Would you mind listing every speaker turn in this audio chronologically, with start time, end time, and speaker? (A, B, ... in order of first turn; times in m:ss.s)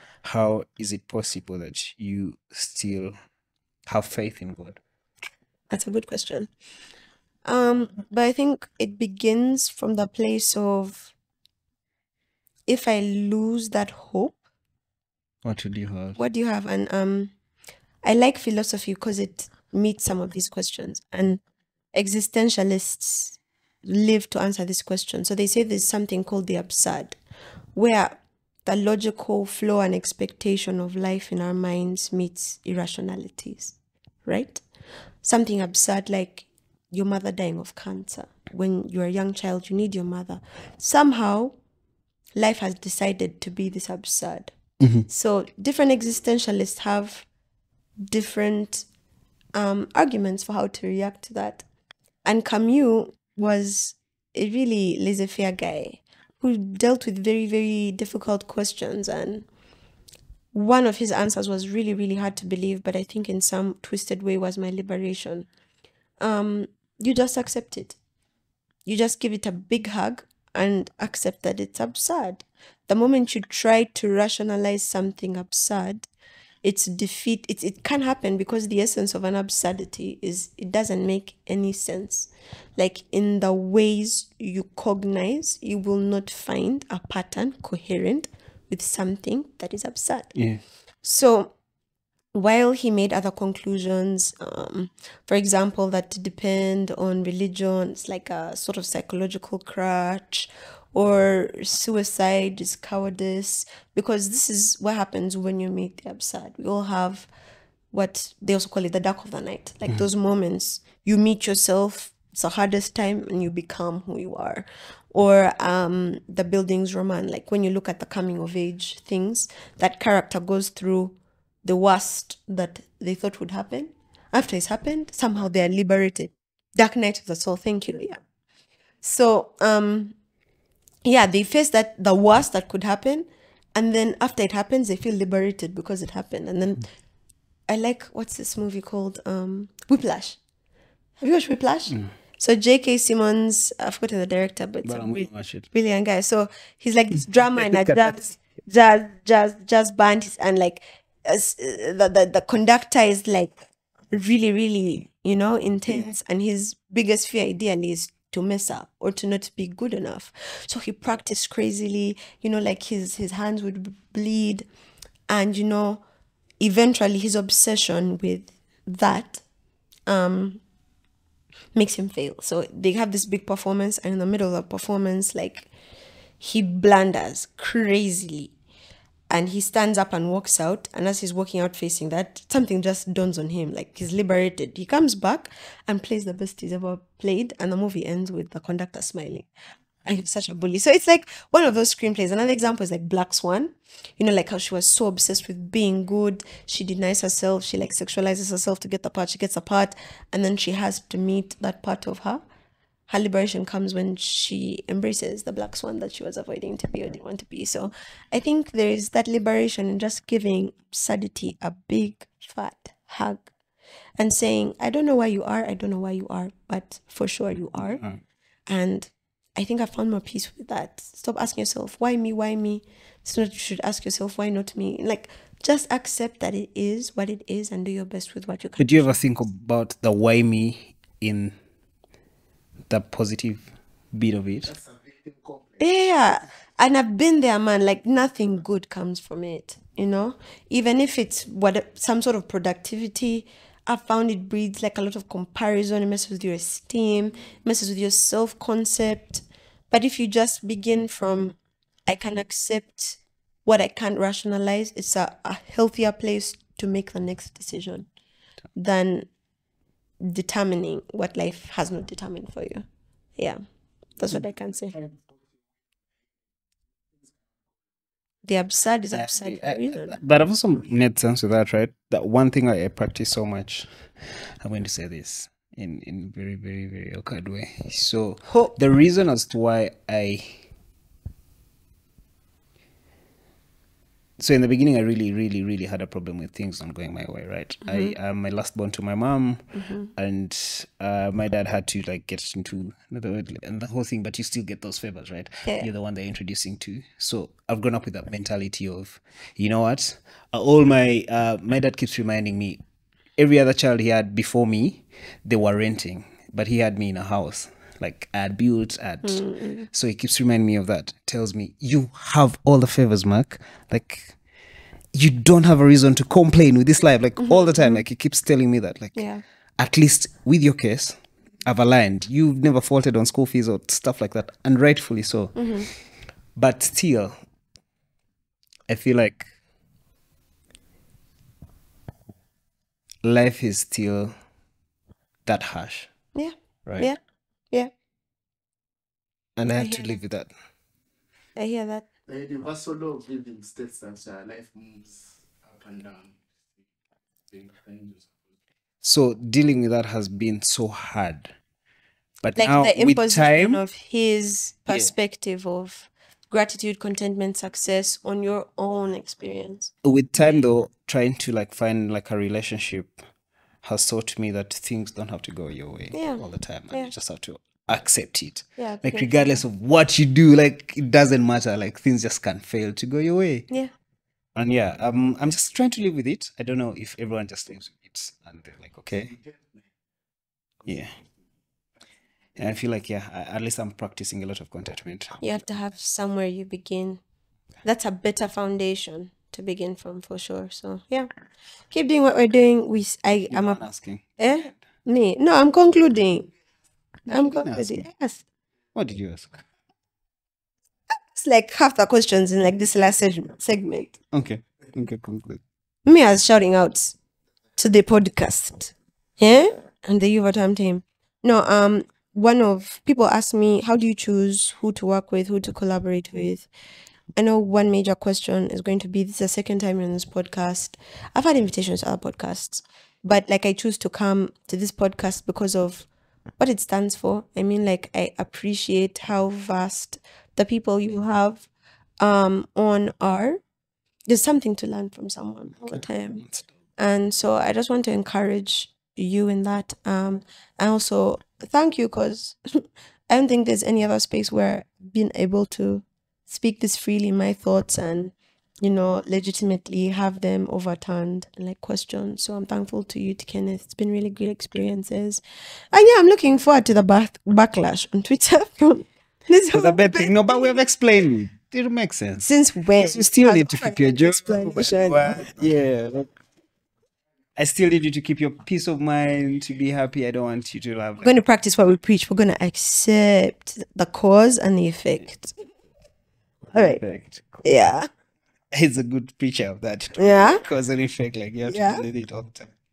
0:00.2-0:03.1 A
0:03.8-0:04.8 A
0:05.7-0:06.5 B
0:07.4-0:11.1 B
0:12.7-0:14.4 B
0:15.4-0:16.2 A
0:16.2-0:17.3 B
0:18.0-0:21.4 B
0:21.9-0:27.2 B
0:27.7-0:34.6 B
0:35.2-0:41.5 B
0:42.4-0:44.5 B
0:44.8-0:45.1 A
0:45.1-0:47.3 B
0:48.1-0:48.9 B
0:49.5-0:51.6 B
0:52.2-0:59.5 B
1:00.5-1:05.5 B
1:06.2-1:08.0 B
1:08.8-1:16.1 B
1:16.6-1:30.3 B
1:30.3-1:30.6 A
1:31.0-1:31.5 B
1:32.3-1:47.3 B
1:47.9-2:08.2 B
2:09.0-2:10.1 B
2:11.0-2:16.9 B
2:17.7-2:20.4 B
2:21.2-2:33.6 B
2:24.8-2:25.7 A
2:27.5-2:28.2 A
2:34.1-2:44.7 B
2:45.3-2:46.0 B
2:46.6-2:49.4 B
2:50.1-2:50.6 B
2:51.7-2:55.7 B
2:56.4-2:58.5 B
2:59.3-3:09.5 B
3:10.0-3:22.4 B
3:23.1-3:33.5 B
3:34.2-3:38.0 B
3:37.8-3:38.2 A
3:38.7-3:49.2 B
3:48.8-3:51.6 A
3:52.9-3:54.7 A
3:54.7-3:55.8 C
3:55.8-4:11.6 B
4:12.1-4:18.1 B
4:18.7-4:19.3 B
4:20.2-4:22.8 B
4:24.2-4:25.0 B
4:28.4-4:30.2 B
4:29.1-4:40.6 A
4:38.4-4:38.7 B
4:44.4-5:02.8 A
4:47.8-4:48.1 B
4:49.7-4:50.1 B
5:03.4-5:14.3 A
5:09.2-5:09.9 B
5:15.1-5:19.2 A
5:17.4-5:18.0 B
5:19.1-5:19.4 B
5:19.8-5:25.7 A
5:25.5-5:25.9 B
5:26.5-5:27.4 A
5:28.9-5:29.4 A
5:33.2-5:34.3 A
5:35.4-5:36.1 A
5:36.3-5:37.2 B
5:39.6-5:40.5 A
5:39.7-5:40.2 B
5:41.6-5:42.0 B
5:42.3-5:46.4 C
5:47.5-5:48.4 C
5:49.0-5:51.6 A
5:52.4-5:53.8 A
5:52.6-5:59.9 B
6:00.0-6:03.2 A
6:03.8-6:13.7 A
6:06.1-6:07.1 B
6:08.8-6:09.6 B
6:14.5-6:19.3 A
6:20.8-6:21.1 A
6:22.6-6:25.4 A
6:25.4-6:27.2 B
6:27.8-6:31.3 B
6:31.9-6:33.8 B
6:33.5-6:34.3 A
6:34.4-6:36.5 B
6:37.3-6:38.4 B
6:37.3-6:38.0 A
6:38.9-6:39.6 A
6:41.1-6:44.1 B
6:44.3-6:45.6 A
6:46.0-6:47.2 B
6:47.8-6:56.7 B
6:57.4-7:11.7 B
7:12.2-7:13.6 B
7:14.3-7:16.4 B
7:16.4-7:16.7 A
7:17.0-7:40.8 B
7:39.7-7:42.4 A
7:42.4-7:45.6 B
7:43.0-7:46.3 A
7:47.6-7:51.3 A
7:51.2-7:55.5 B
7:56.7-7:57.6 A
7:56.7-7:57.0 B
7:57.6-7:58.1 B
7:58.7-8:02.7 A
8:00.2-8:00.6 B
8:01.7-8:02.0 B